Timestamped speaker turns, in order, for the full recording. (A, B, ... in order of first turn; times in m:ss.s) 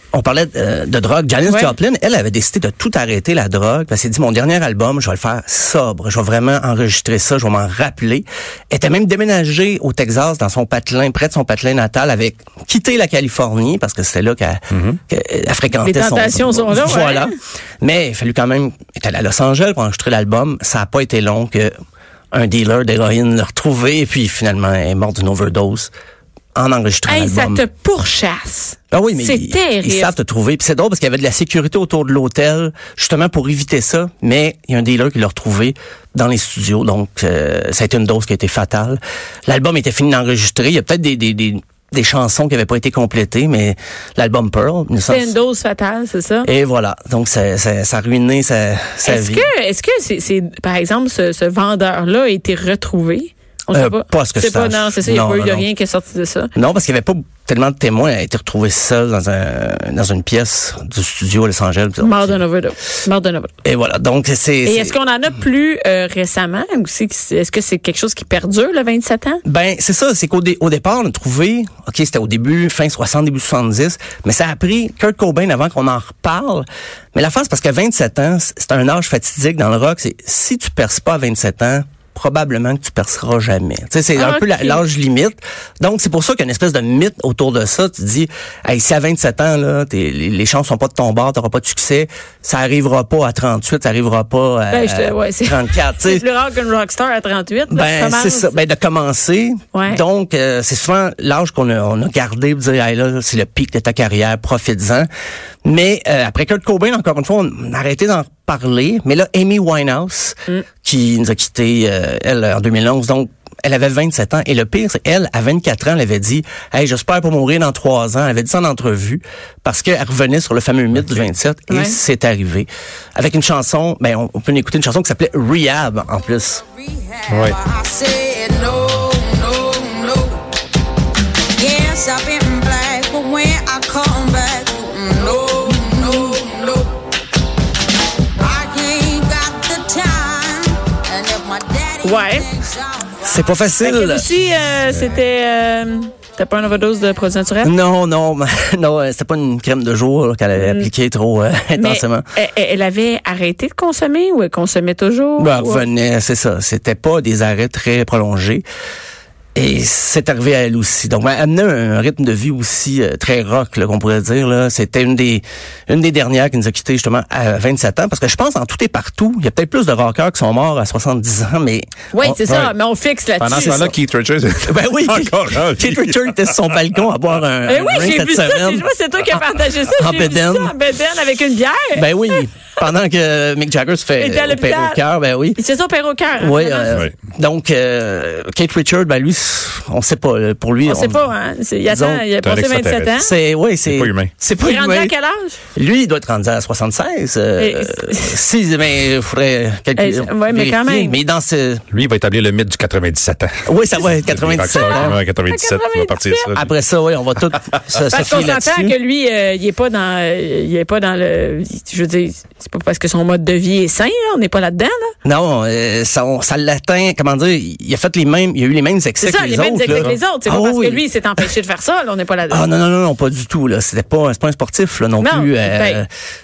0:00.1-0:21.7 A
0:01.5-0:01.7 B
0:14.7-0:15.0 C
0:15.8-0:17.4 B
0:22.3-0:25.9 A
0:26.5-0:27.6 A
0:27.1-0:30.1 B
0:28.9-0:45.3 A
0:45.0-0:46.5 B
0:46.4-0:49.5 A
0:49.0-0:56.5 B
0:53.7-0:55.7 A
0:56.5-1:02.4 A
1:02.0-1:03.5 B
1:03.6-1:05.0 A
1:04.6-1:09.4 B
1:09.4-1:36.2 A
1:24.2-1:24.8 B
1:34.7-1:38.6 B
1:37.7-1:45.1 A
1:39.7-1:40.0 B
1:45.6-2:06.6 A
2:01.7-2:02.0 B
2:07.3-2:07.6 C
2:07.5-2:10.4 D
2:11.6-2:16.9 D
2:18.4-2:21.9 D
2:22.0-2:22.5 B
2:23.2-2:24.3 A
2:23.8-2:27.7 B
2:27.6-2:32.2 A
2:30.6-2:30.9 B
2:31.7-2:35.8 B
2:35.4-2:38.6 A
2:39.5-2:52.5 A
2:52.1-2:53.9 B
2:52.5-2:52.7 C
2:53.4-2:56.6 C
2:53.6-2:53.9 A
2:54.6-2:58.8 A
2:57.6-3:02.4 B
2:59.9-3:00.7 A
3:01.9-3:05.6 A
3:04.2-3:05.0 B
3:05.6-3:07.0 B
3:06.4-3:11.3 A
3:10.8-3:13.3 B
3:11.8-3:12.3 A
3:12.4-3:13.1 C
3:13.1-3:15.1 A
3:13.9-3:14.3 C
3:14.6-3:15.6 B
3:15.7-3:21.8 A
3:17.6-3:18.4 B
3:20.0-3:21.2 B
3:21.9-3:26.7 C
3:23.7-3:25.2 A
3:24.7-3:26.6 B
3:26.5-3:29.0 A
3:28.1-3:35.1 B
3:35.2-3:41.5 A
3:39.2-3:42.6 B
3:39.9-3:40.2 C
3:42.5-3:46.1 A
3:45.2-3:46.0 B